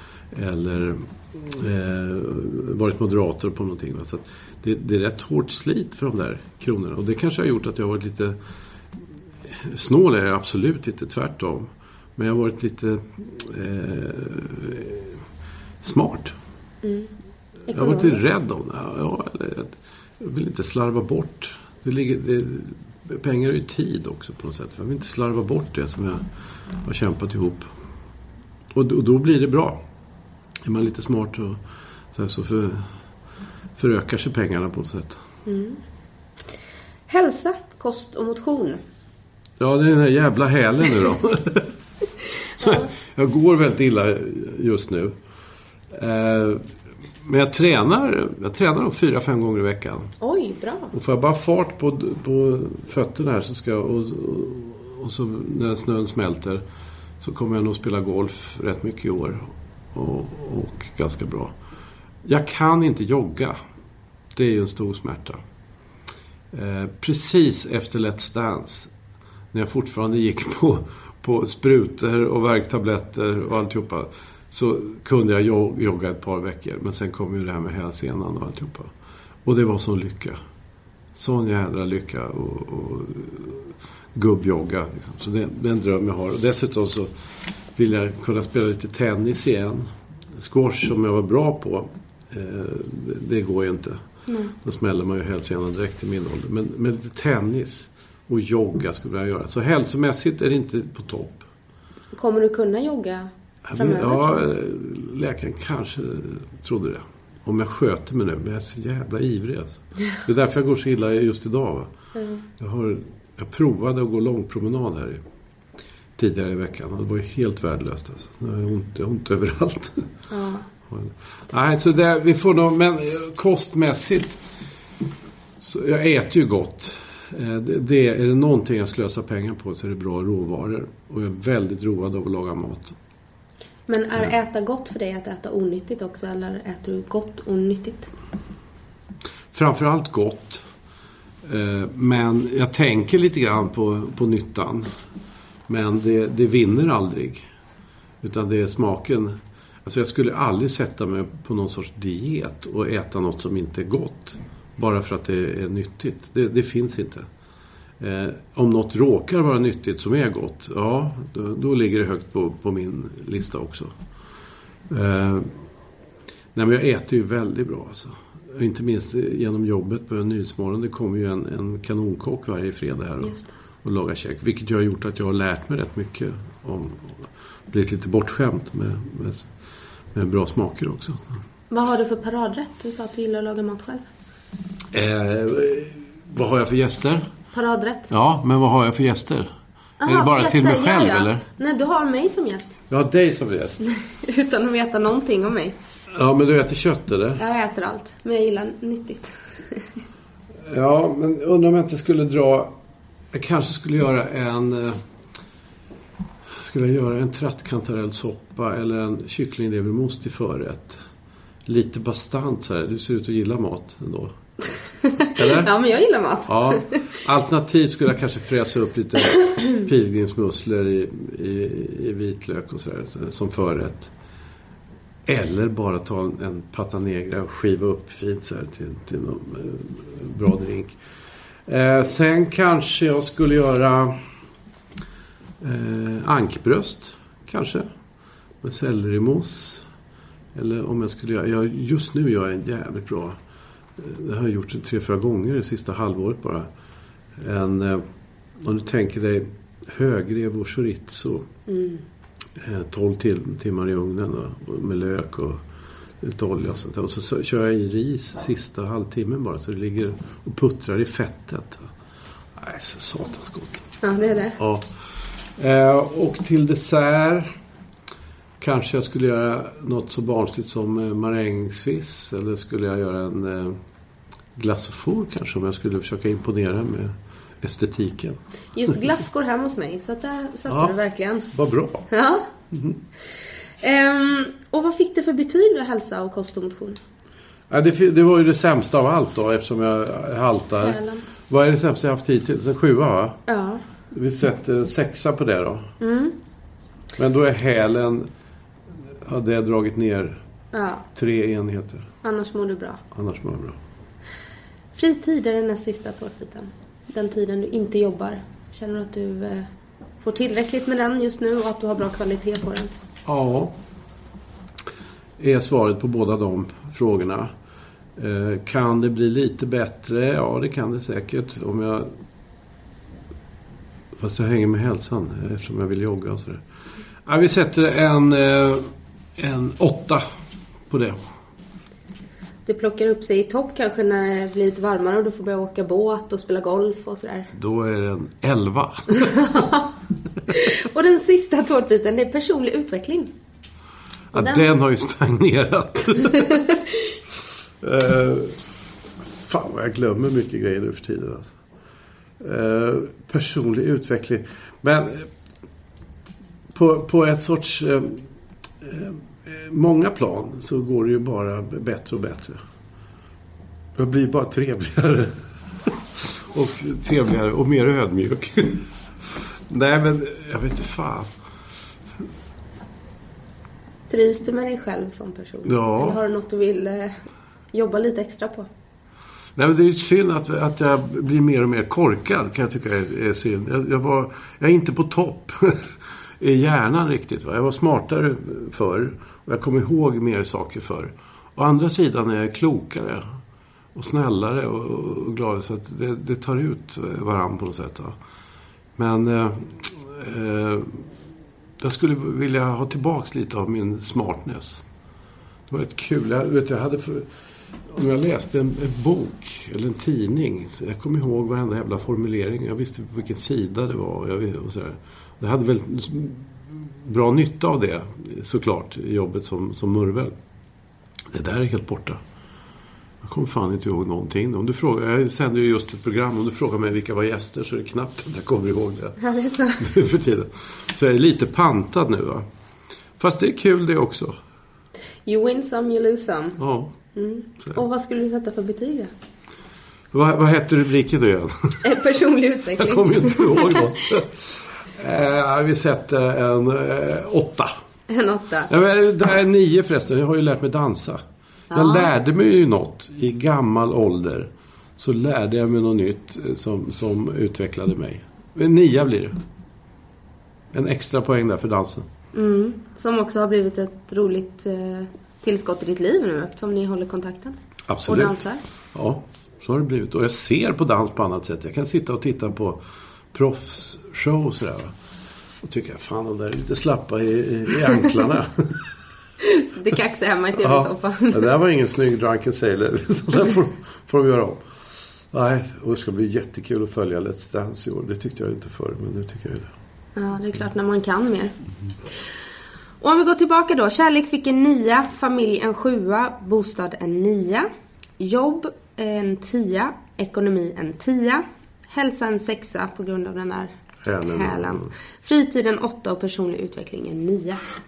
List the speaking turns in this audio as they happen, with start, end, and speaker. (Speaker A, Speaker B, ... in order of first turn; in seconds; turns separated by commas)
Speaker A: 0.3-8.4, Speaker A: 9.5-15.2, Speaker A: 15.8-16.3, Speaker B: 16.8-17.1, Speaker B: 17.7-18.2, Speaker A: 17.7-26.2, Speaker A: 26.8-27.7, Speaker A: 28.7-29.8, Speaker A: 30.6-31.6, Speaker A: 32.1-32.9, Speaker A: 33.8-35.2, Speaker B: 35.5-35.8, Speaker B: 37.1-38.8, Speaker A: 39.6-41.7, Speaker A: 42.6-45.1, Speaker B: 42.6-42.9, Speaker A: 45.9-46.7, Speaker A: 47.2-50.1, Speaker B: 50.2-50.9, Speaker A: 50.9-56.6, Speaker A: 57.2-61.5, Speaker A: 62.2-63.6, Speaker A: 64.3-65.4, Speaker A: 66.5-68.9, Speaker A: 69.5-78.9, Speaker A: 79.4-80.4, Speaker A: 81.1-87.1, Speaker A: 87.7-94.0, Speaker B: 94.3-94.5, Speaker A: 94.5-101.5, Speaker B: 102.1-104.5, Speaker A: 103.7-111.9, Speaker B: 112.1-112.5, Speaker A: 112.6-115.2, Speaker A: 116.2-120.1, Speaker B: 120.3-120.7, Speaker A: 120.9-124.4, Speaker A: 125.6-132.9, Speaker B: 133.9-138.1, Speaker A: 139.5-140.6, Speaker A: 141.4-144.9, Speaker A: 145.7-147.4, Speaker A: 148.2-157.3, Speaker A: 158.0-163.9, Speaker A: 164.9-165.6, Speaker A: 166.5-179.5, Speaker B: 173.2-173.5, Speaker A: 180.1-181.3, Speaker B: 181.7-184.0, Speaker A: 184.9-187.3, Speaker B: 187.5-188.1, Speaker A: 188.1-189.5, Speaker B: 190.0-192.8, Speaker A: 190.0-191.4, Speaker A: 192.9-193.8, Speaker B: 193.8-195.8, Speaker A: 196.1-197.4, Speaker B: 197.4-199.9, Speaker A: 200.6-202.7, Speaker A: 203.3-205.0, Speaker A: 206.5-211.0, Speaker A: 211.7-214.3, Speaker B: 215.1-217.0, Speaker A: 215.3-215.7, Speaker A: 216.5-224.1, Speaker A: 225.2-231.0, Speaker A: 231.7-234.2, Speaker A: 235.6-237.9, Speaker A: 238.6-239.9, Speaker A: 240.5-243.4, Speaker A: 244.0-246.7, Speaker A: 247.4-248.0, Speaker A: 248.6-251.5, Speaker B: 251.7-252.0, Speaker A: 252.6-255.6, Speaker A: 256.2-261.9, Speaker A: 262.6-263.8, Speaker B: 264.0-264.6, Speaker A: 264.6-264.9, Speaker A: 265.6-267.5, Speaker A: 268.6-273.8, Speaker A: 274.5-278.4, Speaker B: 278.7-281.5, Speaker A: 280.7-280.9, Speaker A: 281.5-282.1, Speaker B: 282.1-282.5, Speaker A: 282.7-283.0, Speaker B: 283.8-287.0, Speaker A: 287.7-293.4, Speaker B: 290.8-291.2, Speaker B: 293.5-293.8, Speaker A: 294.1-295.9, Speaker B: 296.0-296.4, Speaker A: 297.1-298.3, Speaker A: 299.2-300.4, Speaker B: 300.7-301.1, Speaker A: 301.1-302.1, Speaker B: 302.2-303.0, Speaker A: 303.1-303.8, Speaker B: 304.9-309.7, Speaker B: 310.2-312.9, Speaker A: 313.2-313.8, Speaker A: 315.4-317.5, Speaker A: 318.1-322.1, Speaker A: 324.2-326.6, Speaker A: 327.2-330.2, Speaker A: 330.9-331.2, Speaker B: 332.6-337.5, Speaker A: 337.5-339.6, Speaker B: 339.3-339.9, Speaker B: 340.5-343.3, Speaker A: 344.3-346.6, Speaker B: 344.3-344.7, Speaker B: 346.3-346.9, Speaker A: 347.8-348.6, Speaker A: 349.4-351.6, Speaker A: 352.4-355.3, Speaker A: 356.7-358.2, Speaker A: 358.8-362.6, Speaker A: 363.9-371.3, Speaker B: 374.1-377.2, Speaker A: 375.6-376.2, Speaker B: 377.7-378.7, Speaker A: 379.6-393.4, Speaker A: 393.9-398.1, Speaker A: 398.9-401.1, Speaker A: 401.8-404.8, Speaker A: 405.7-407.3, Speaker A: 407.9-420.3, Speaker A: 421.3-422.2, Speaker A: 423.2-429.2, Speaker B: 429.2-429.9, Speaker A: 429.8-432.4, Speaker A: 433.2-434.4, Speaker B: 435.2-436.6, Speaker A: 436.6-436.9, Speaker B: 437.1-439.1, Speaker A: 440.1-441.9, Speaker B: 441.8-443.9, Speaker A: 442.8-447.7, Speaker B: 448.1-448.7, Speaker A: 448.7-451.2, Speaker B: 451.7-452.1, Speaker A: 451.7-459.4, Speaker A: 460.7-462.1, Speaker B: 462.3-468.6, Speaker A: 467.9-468.4, Speaker A: 468.9-472.8, Speaker A: 473.3-474.9, Speaker A: 475.6-478.9, Speaker B: 479.4-481.5, Speaker A: 480.6-484.6, Speaker A: 485.3-489.7, Speaker B: 490.1-491.5, Speaker B: 493.0-507.6, Speaker A: 504.0-504.9